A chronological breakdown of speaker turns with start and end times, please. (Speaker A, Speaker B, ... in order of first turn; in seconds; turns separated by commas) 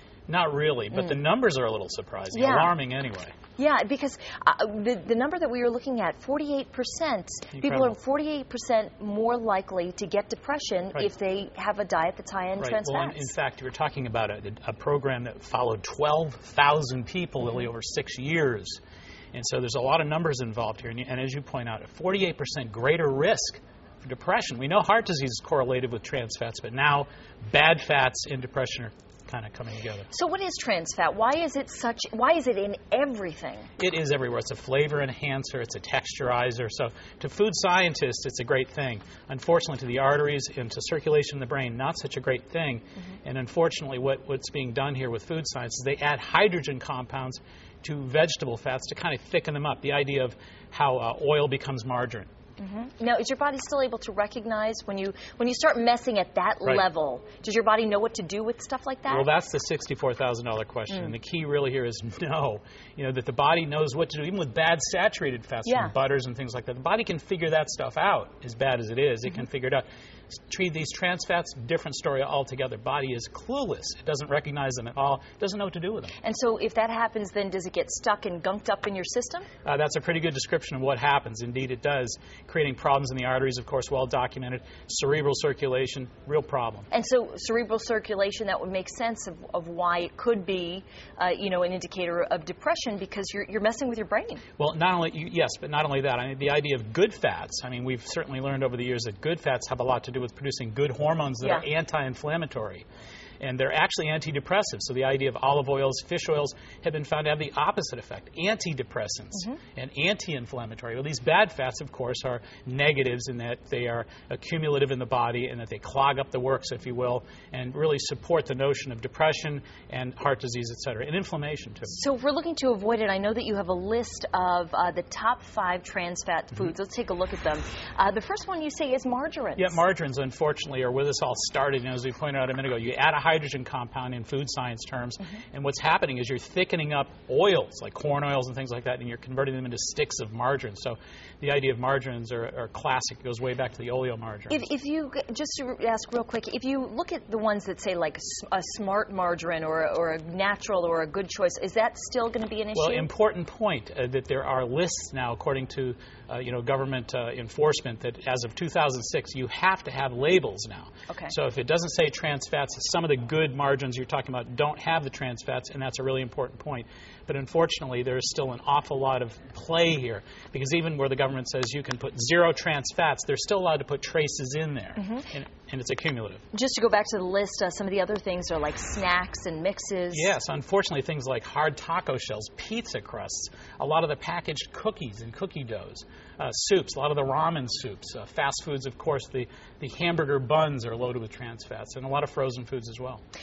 Speaker A: 0.3-3.3, Speaker B: 2.3-2.7, Speaker B: 3.6-13.3, Speaker A: 7.5-7.9, Speaker A: 12.6-18.8, Speaker A: 19.3-30.1, Speaker B: 30.1-33.7, Speaker A: 33.8-52.3, Speaker B: 52.6-59.3, Speaker A: 59.1-76.1, Speaker B: 65.7-65.9, Speaker B: 76.2-79.5, Speaker A: 79.6-86.9, Speaker B: 86.9-94.4, Speaker A: 94.6-102.8, Speaker B: 101.4-101.7, Speaker A: 103.4-122.0, Speaker B: 121.9-129.8, Speaker A: 129.6-144.6, Speaker B: 144.5-153.1, Speaker A: 152.7-176.4, Speaker B: 161.1-161.3, Speaker B: 175.0-175.2, Speaker B: 176.5-180.3, Speaker A: 180.1-193.2